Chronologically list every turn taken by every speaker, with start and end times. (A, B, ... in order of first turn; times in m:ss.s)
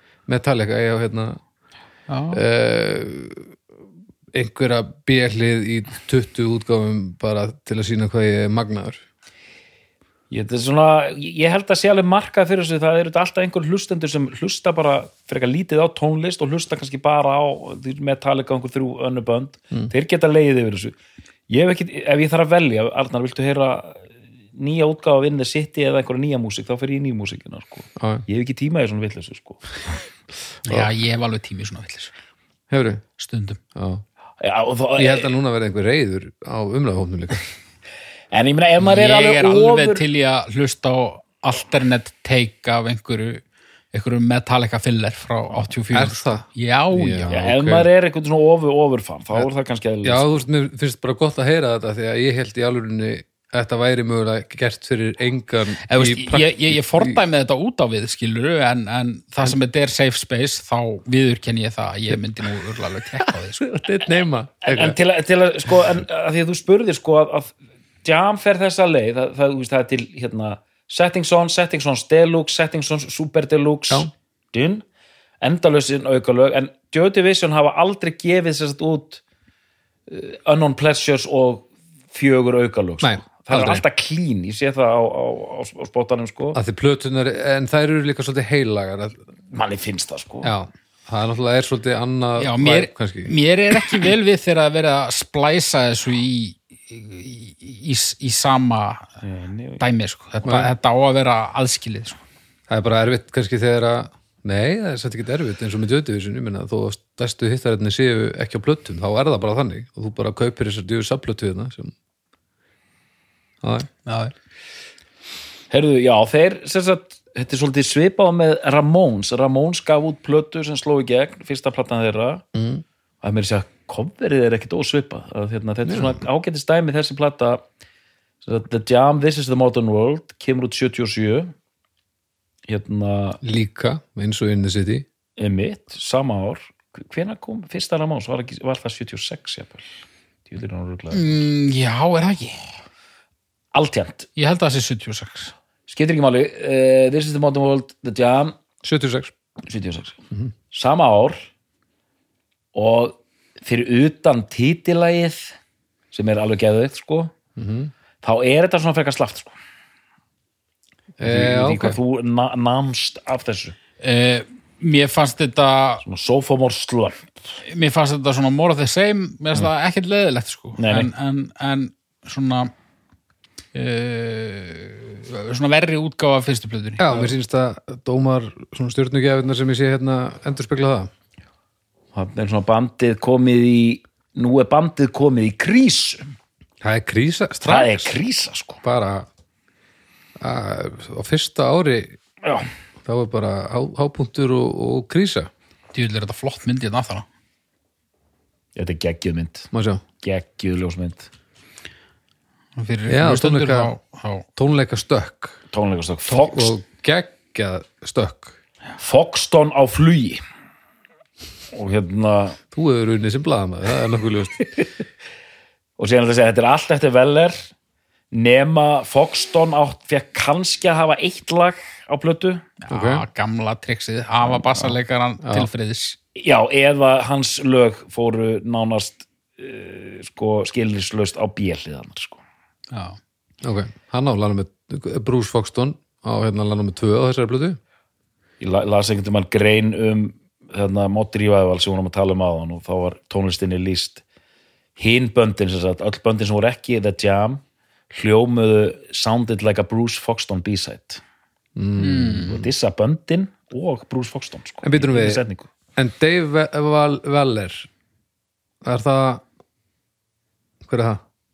0:00.3-0:01.4 A
0:02.1-0:02.4 B
0:02.3-0:03.5 A
0:04.3-0:09.0 A
0:10.3-0:21.0 C
0:21.5-0:29.6 C
0:28.0-0:28.2 A
0:30.6-0:32.1 B
0:32.7-0:33.0 A
0:33.2-0:33.6 B
0:33.8-0:34.0 A
0:34.4-0:35.3 C
0:35.0-0:37.4 A
0:38.3-0:40.0 C
0:38.8-0:47.4 B
0:45.9-0:47.9 A
0:47.3-0:50.4 C
0:50.0-0:57.2 A
0:55.9-1:03.7 B
1:03.2-1:05.0 A
1:04.6-1:14.8 C
1:15.4-1:19.2 C
1:20.1-1:26.6 C
1:23.0-1:23.8 A
1:26.6-1:29.2 A
1:29.5-1:30.5 C
1:30.4-1:33.3 A
1:32.4-1:39.1 B
1:39.2-1:39.8 C
1:39.8-1:42.2 B
1:40.4-1:40.7 A
1:42.7-1:51.9 A
1:53.6-1:53.9 A
1:54.1-1:54.3 B
1:55.7-2:02.4 C
2:02.6-2:02.8 A
2:03.2-2:07.6 C
2:05.9-2:06.2 A
2:08.4-2:11.5 C
2:12.7-2:13.4 C
2:13.4-2:15.1 A
2:15.4-2:21.4 C
2:21.1-2:22.7 B
2:23.7-2:24.3 C
2:24.4-2:25.5 B
2:25.9-2:28.6 C
2:28.8-2:29.3 A
2:29.6-2:30.2 C
2:30.7-2:31.4 C
2:32.8-2:35.6 C
2:36.1-2:37.3 C
2:37.6-2:37.9 A
2:38.2-2:39.6 C
2:41.2-2:42.0 A
2:41.2-2:43.8 C
2:44.0-2:46.0 B
2:46.0-2:47.3 C
2:47.7-2:52.7 B
2:50.8-2:51.1 C
2:53.8-2:57.3 B
2:57.0-3:01.1 A
3:02.1-3:06.3 C
3:06.8-3:08.2 A
3:07.6-3:08.8 C
3:08.8-3:09.3 A
3:10.4-3:12.2 A
3:13.0-3:15.5 A
3:15.9-3:17.3 B
3:18.8-3:19.7 C
3:19.7-3:20.0 A
3:20.2-3:21.3 C
3:22.8-3:24.5 B
3:23.1-3:23.9 A
3:24.6-3:25.6 A
3:25.7-3:26.7 C
3:26.3-3:28.6 A
3:29.0-3:30.4 C
3:31.7-3:32.6 C
3:32.7-3:34.7 A
3:36.0-3:37.7 C
3:38.3-3:42.7 C
3:42.8-3:46.2 B
3:42.9-3:43.2 A
3:45.4-3:45.7 A
3:46.4-3:52.4 C
3:52.9-3:53.2 B
3:53.6-3:57.8 A
3:58.6-4:04.2 C
4:05.0-4:11.2 C
4:11.8-4:12.5 A
4:12.0-4:12.6 B
4:12.1-4:15.7 C
4:14.8-4:15.4 A
4:16.0-4:17.9 A
4:18.8-4:19.4 A
4:20.8-4:21.2 A